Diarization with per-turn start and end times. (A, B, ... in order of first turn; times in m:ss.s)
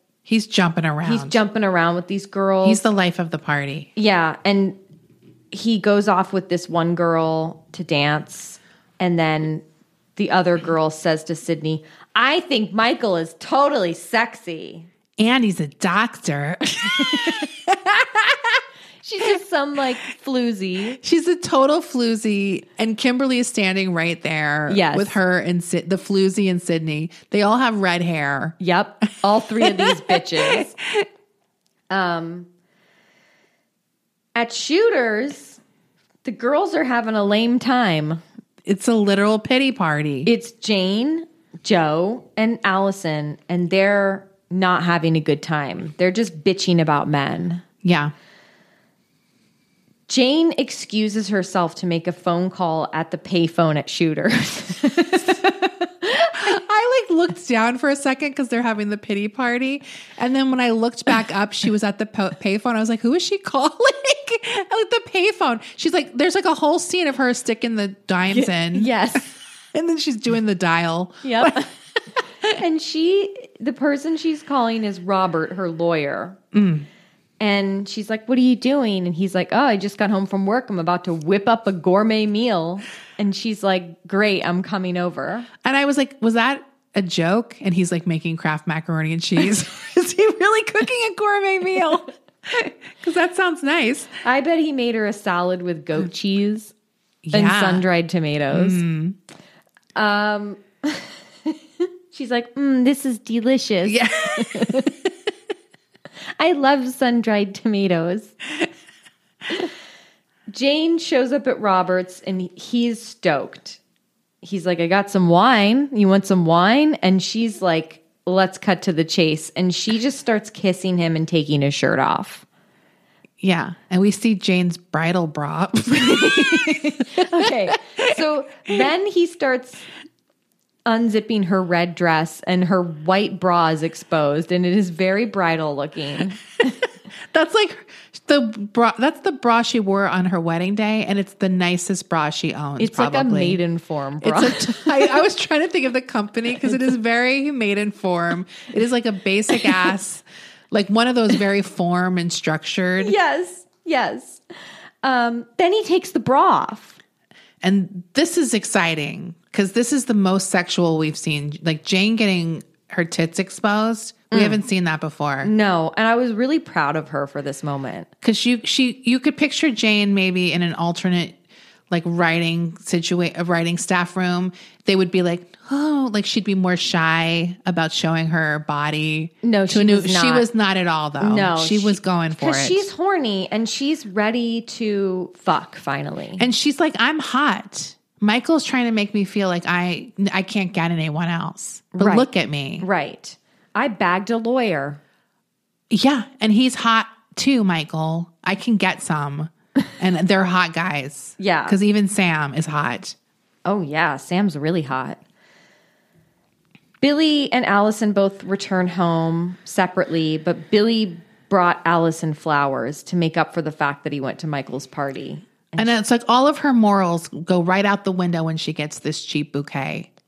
0:00.2-0:01.4 A
0:01.0-0:02.8 B
0:02.6-0:03.9 A
0:04.0-0:04.8 B
0:05.5-0:09.6 B
0:10.2-0:14.9 B
0:15.2-0:18.6 A
0:19.0-0:21.0 B
0:21.0-0:28.6 A
0:24.7-0:25.2 B
0:28.6-0:30.7 B
0:29.6-0:31.0 A
0:31.9-0:32.5 B
0:34.3-0:35.6 B
0:36.2-0:38.2 B
0:38.6-0:40.3 A
0:40.2-0:47.6 B
0:47.8-0:48.1 A
0:50.1-0:55.4 B
0:55.2-0:55.7 A
0:56.3-1:08.9 A
1:08.3-1:09.4 B
1:09.7-1:11.7 A
1:11.2-1:11.7 B
1:12.5-1:16.4 B
1:16.5-1:16.9 A
1:17.4-1:25.5 B
1:25.6-1:34.2 A
1:34.2-1:36.7 B
1:37.2-1:37.8 A
1:37.3-1:38.8 B
1:38.5-1:39.2 A
1:39.9-1:41.6 B
1:42.1-1:44.9 B
1:43.8-1:44.9 A
1:46.4-1:48.3 B
1:50.5-1:53.8 B
1:54.4-2:02.4 B
2:03.4-2:08.1 A
2:05.9-2:09.8 B
2:10.8-2:16.4 B
2:17.3-2:23.6 A
2:22.8-2:25.2 B
2:24.2-2:33.2 A
2:33.0-2:34.4 B
2:35.0-2:37.0 B
2:37.6-2:45.5 A
2:44.3-2:44.6 B
2:45.4-2:48.1 B
2:48.2-2:51.4 A
2:51.9-3:02.9 A
2:59.4-3:00.5 B
3:01.2-3:06.5 B
3:06.4-3:12.9 A
3:11.9-3:12.3 B
3:12.8-3:15.0 B
3:15.9-3:23.2 A
3:21.4-3:21.8 B
3:23.6-3:25.2 B
3:27.0-3:35.9 B
3:35.8-3:40.1 A